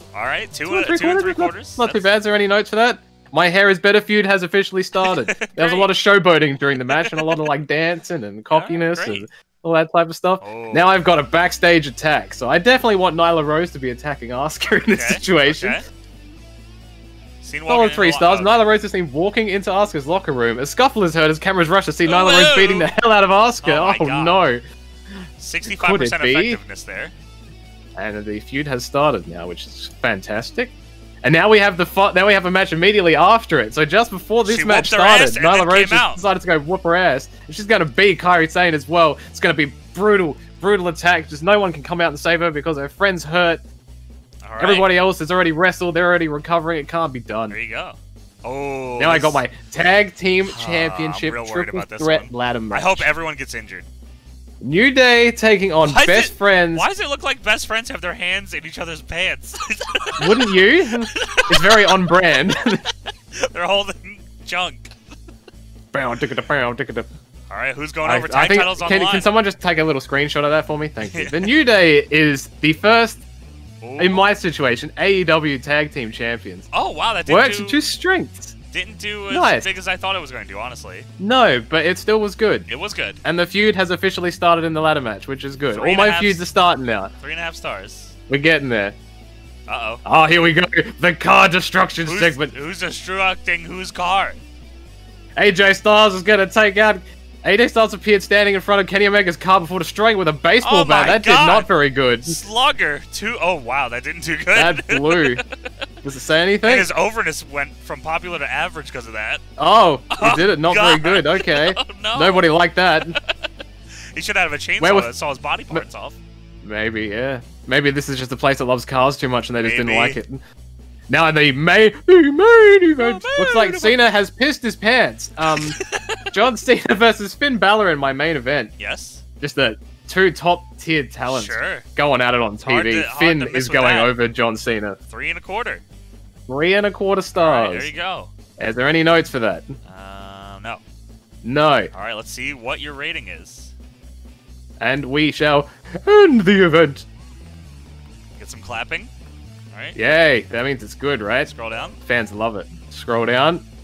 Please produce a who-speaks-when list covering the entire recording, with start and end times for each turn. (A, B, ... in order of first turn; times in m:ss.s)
0:00.1-0:02.1 A
0:00.7-0:15.8 B
0:05.0-0:05.9 A
0:06.9-0:07.4 A
0:08.5-0:09.2 A
0:10.4-0:11.0 A
0:14.9-0:15.8 A
0:17.4-0:18.6 A
0:17.7-0:24.6 B
0:22.0-0:22.9 A
0:23.6-0:24.4 A
0:25.4-0:27.1 A
0:25.6-0:26.6 B
0:28.0-0:43.6 B
0:34.4-0:36.2 A
0:44.4-0:44.9 A
0:44.6-0:47.6 B
0:47.5-0:49.4 A
0:49.0-0:53.1 B
0:50.5-0:53.9 A
0:54.6-0:56.9 B
0:55.8-1:02.0 A
1:00.2-1:02.8 B
1:03.3-1:04.9 A
1:05.9-1:07.1 B
1:07.5-1:09.3 A
1:08.0-1:13.2 B
1:11.0-1:11.6 A
1:13.8-1:14.3 A
1:14.0-1:16.7 B
1:16.7-1:17.9 A
1:17.3-1:18.6 B
1:18.7-1:21.1 A
1:19.3-1:19.7 B
1:21.2-1:22.7 B
1:22.7-1:23.2 A
1:23.2-1:27.1 B
1:25.7-1:26.5 A
1:27.2-1:28.2 A
1:28.3-1:29.0 B
1:29.7-1:30.0 A
1:30.0-1:32.5 B
1:32.0-1:34.4 A
1:35.4-1:42.4 B
1:40.6-1:41.7 A
1:42.2-1:45.7 A
1:44.5-1:45.4 B
1:46.0-1:46.9 B
1:46.6-1:49.4 A
1:49.6-1:53.2 B
1:50.1-1:52.6 A
1:53.1-1:53.4 A
1:54.1-1:56.2 A
1:54.8-1:55.1 B
1:56.6-2:00.4 B
1:59.6-2:00.2 A
2:01.1-2:05.8 B
2:03.0-2:04.0 A
2:05.5-2:06.2 A
2:06.3-2:08.7 B
2:08.8-2:09.2 A
2:09.4-2:15.0 B
2:11.3-2:11.9 A
2:12.6-2:14.1 A
2:15.1-2:15.8 A
2:16.5-2:17.9 B
2:17.3-2:18.3 A
2:18.6-2:19.7 B
2:19.8-2:20.8 A
2:21.4-2:21.9 B
2:21.9-2:23.7 A
2:24.8-2:27.0 B
2:28.4-2:29.1 A
2:29.7-2:30.2 A
2:30.0-2:31.5 B
2:31.5-2:32.0 A
2:32.0-2:33.6 B